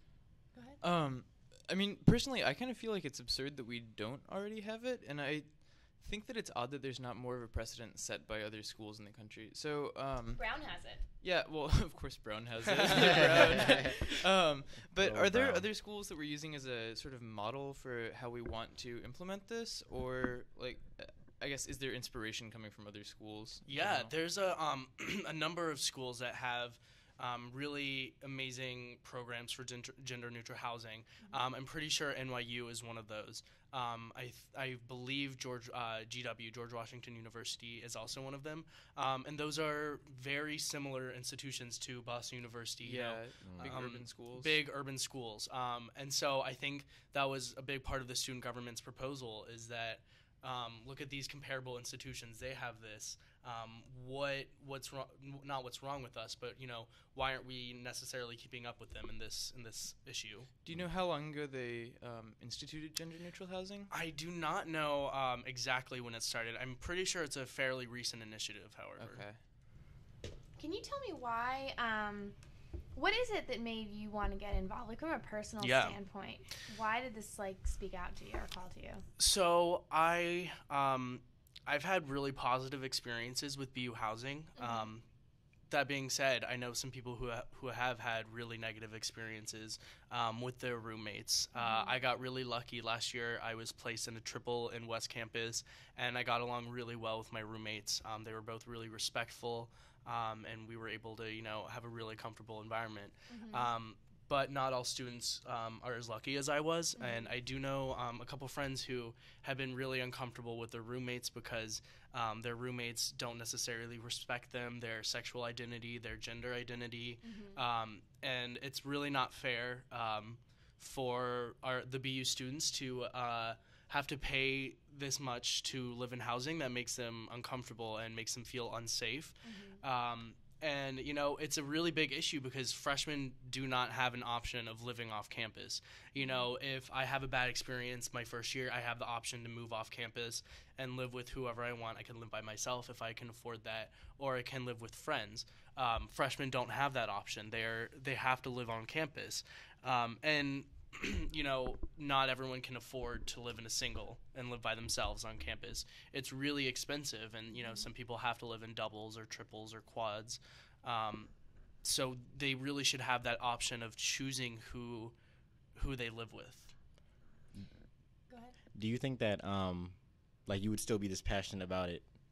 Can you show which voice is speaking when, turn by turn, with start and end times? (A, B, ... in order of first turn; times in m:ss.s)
0:00.5-0:00.8 A
0:00.8-0:24.1 B
0:10.4-0:11.0 A
0:12.8-0:13.5 C
0:13.6-0:13.8 D
0:14.9-0:15.7 D
0:23.7-1:00.5 C
0:42.8-0:44.6 B
0:43.4-0:43.7 D
1:00.6-1:03.9 B
1:03.9-1:09.2 C
1:09.0-1:09.4 B
1:10.6-1:12.4 A
1:12.9-1:19.0 A
1:15.6-1:16.0 C
1:19.2-1:25.0 C
1:24.6-1:24.9 A
1:25.7-2:41.3 C
1:31.6-1:32.0 A
1:43.3-1:43.7 A
1:47.0-1:47.4 A
1:57.2-1:57.6 A
2:09.4-2:09.8 A
2:16.2-2:16.5 A
2:37.5-2:37.8 A
2:41.8-2:45.1 C
2:45.8-2:46.7 C
2:48.3-2:48.6 A
2:48.8-2:49.9 D
2:50.4-2:52.0 D